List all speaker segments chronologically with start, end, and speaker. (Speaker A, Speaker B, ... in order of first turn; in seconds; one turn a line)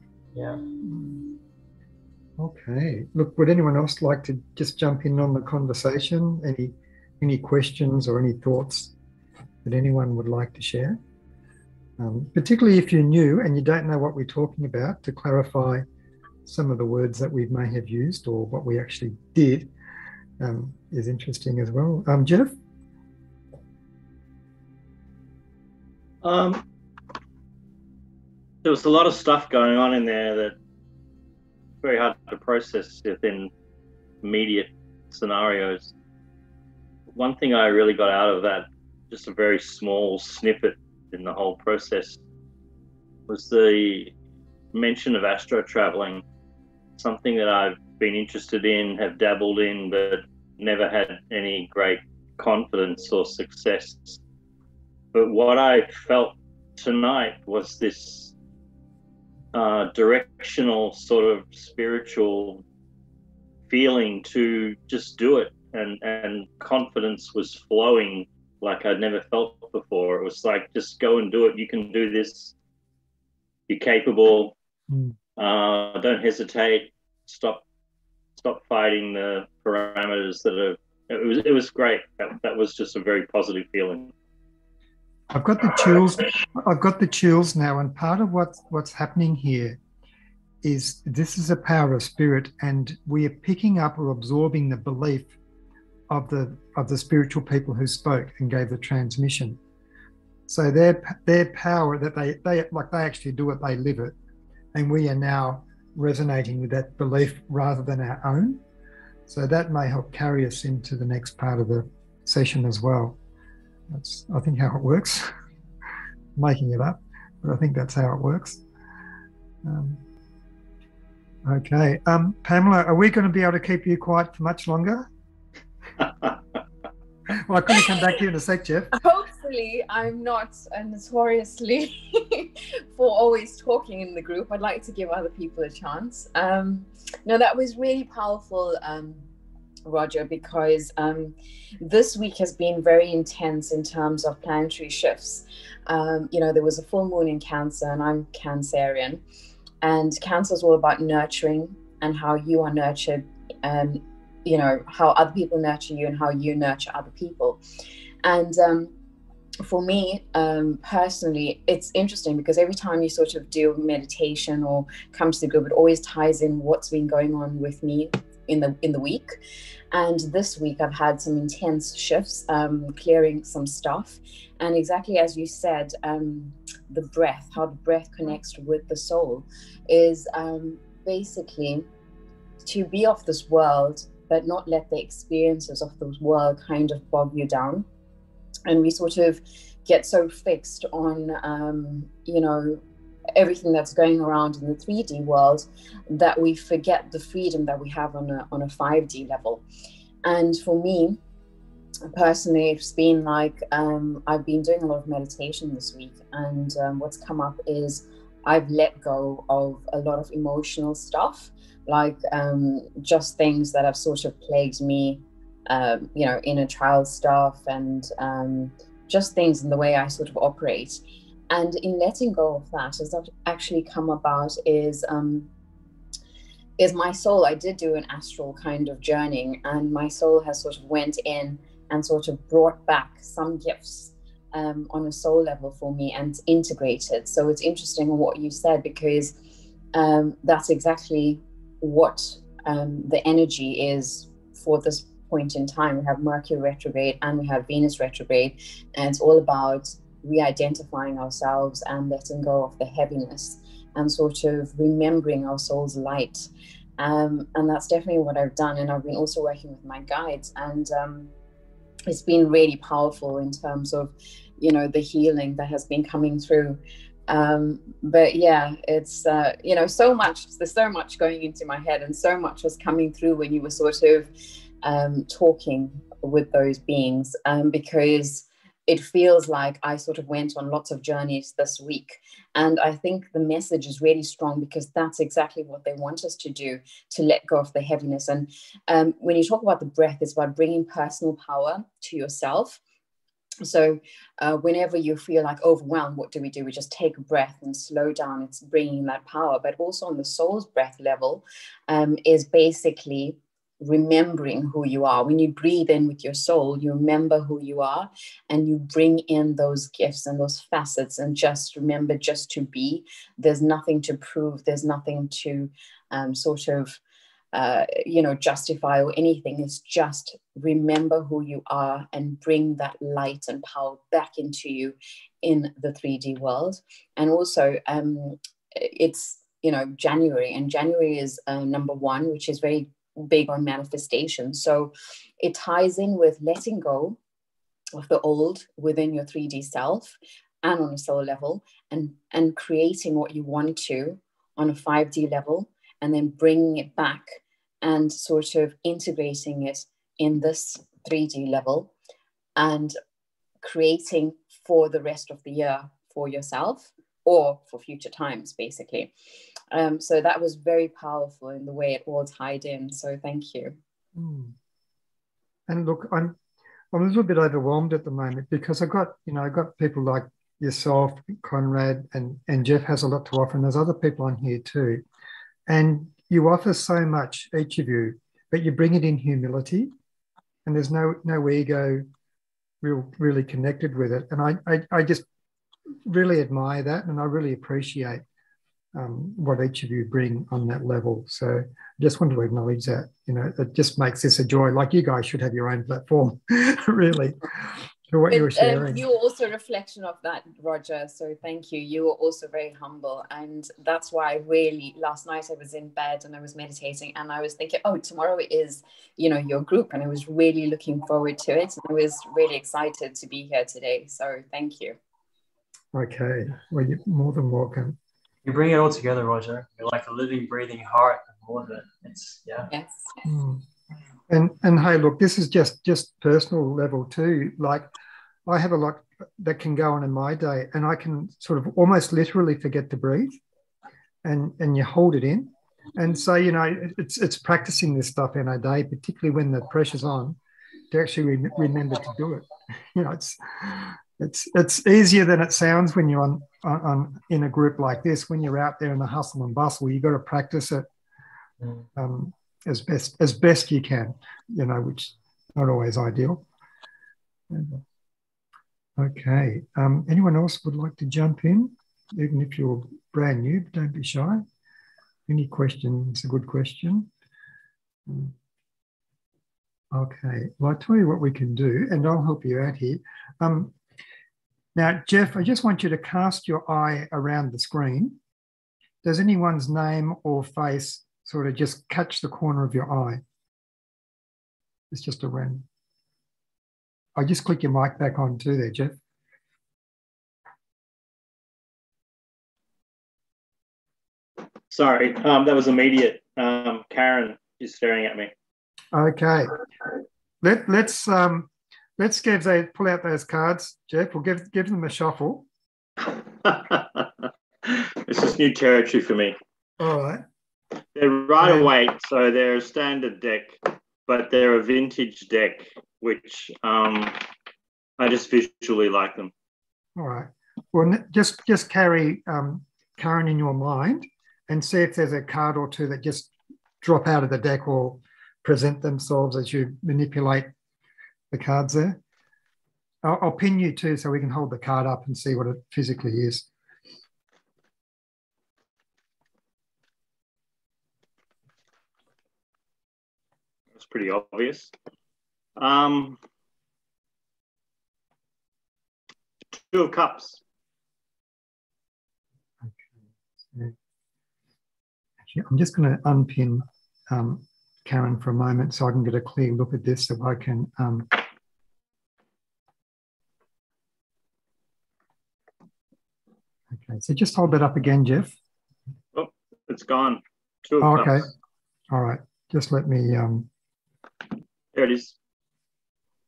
Speaker A: 0.3-0.7
Speaker B: 0.8-1.2
Speaker B: 2.4-8.9
Speaker B: 9.6-11.0
Speaker B: 12.0-15.8
Speaker B: 16.4-19.7
Speaker B: 20.4-22.5
Speaker C: 26.2-26.6
Speaker C: 28.6-30.6
Speaker C: 31.8-33.5
Speaker C: 34.2-35.9
Speaker C: 37.1-42.2
Speaker C: 43.3-44.1
Speaker C: 44.7-46.2
Speaker C: 47.0-54.2
Speaker C: 55.1-58.3
Speaker C: 59.5-62.6
Speaker C: 63.7-72.5
Speaker C: 73.7-74.5
Speaker B: 74.9-75.2
Speaker C: 75.3-77.6
Speaker C: 78.4-84.1
Speaker B: 85.3-89.8
Speaker B: 90.6-95.3
Speaker B: 96.1-99.6
Speaker B: 100.5-104.1
Speaker B: 104.7-108.6
Speaker B: 109.3-113.2
Speaker B: 113.9-115.3
Speaker B: 116.3-118.6
Speaker B: 119.6-120.0
Speaker B: 121.4-125.1
Speaker B: 127.3-128.9
Speaker D: 129.0-139.3
Speaker D: 139.8-149.2
Speaker D: 149.8-157.6
Speaker D: 158.2-158.9
Speaker D: 159.6-169.3
Speaker D: 169.9-181.9
Speaker D: 182.6-187.8
Speaker D: 188.7-192.8
Speaker D: 193.3-199.6
Speaker D: 200.2-201.2
Speaker D: 202.1-225.5
Speaker D: 226.8-239.3
Speaker D: 239.9-256.4
Speaker D: 257.0-261.3
Speaker D: 262.1-274.3
Speaker D: 274.8-292.8
Speaker D: 293.6-317.0
Speaker D: 317.5-337.2
Speaker D: 337.9-351.9
Speaker D: 352.6-352.9
Speaker D: 353.6-359.1
Speaker D: 359.7-363.8
Speaker B: 364.1-364.6
Speaker B: 365.7-366.4
Speaker B: 366.9-375.0
Speaker B: 375.7-379.9
Speaker B: 380.6-382.1
Speaker B: 382.8-385.2
Speaker B: 386.1-388.2
Speaker B: 388.9-399.0
Speaker D: 398.3-415.0
Speaker B: 415.9-418.0
Speaker A: 418.4-422.7
Speaker D: 422.7-423.1
Speaker B: 423.2-423.6
Speaker B: 424.3-427.9
Speaker B: 428.4-433.4
Speaker B: 434.2-440.4
Speaker B: 440.9-450.9
Speaker B: 451.9-456.4
Speaker B: 457.5-457.8
Speaker B: 459.0-464.4
Speaker B: 465.3-467.1
Speaker B: 468.1-468.3
Speaker B: 469.9-473.7
Speaker B: 474.8-478.2
Speaker B: 479.0-483.2
Speaker B: 484.9-485.6
Speaker B: 487.1-488.9
Speaker C: 494.7-498.3
Speaker B: 498.9-499.5
Speaker B: 500.4-505.4
Speaker C: 506.0-509.4
Speaker B: 509.8-510.2
Speaker C: 510.9-517.2
Speaker B: 511.4-511.7
Speaker C: 518.0-519.3
Speaker B: 520.0-530.5
Speaker B: 531.3-532.0
Speaker B: 533.0-536.5
Speaker C: 543.7-544.7
Speaker C: 545.6-546.2
Speaker C: 549.5-550.4
Speaker B: 555.3-561.2
Speaker B: 566.7-568.3
Speaker C: 569.1-571.2
Speaker B: 570.8-571.2
Speaker B: 571.9-573.5
Speaker C: 574.7-575.1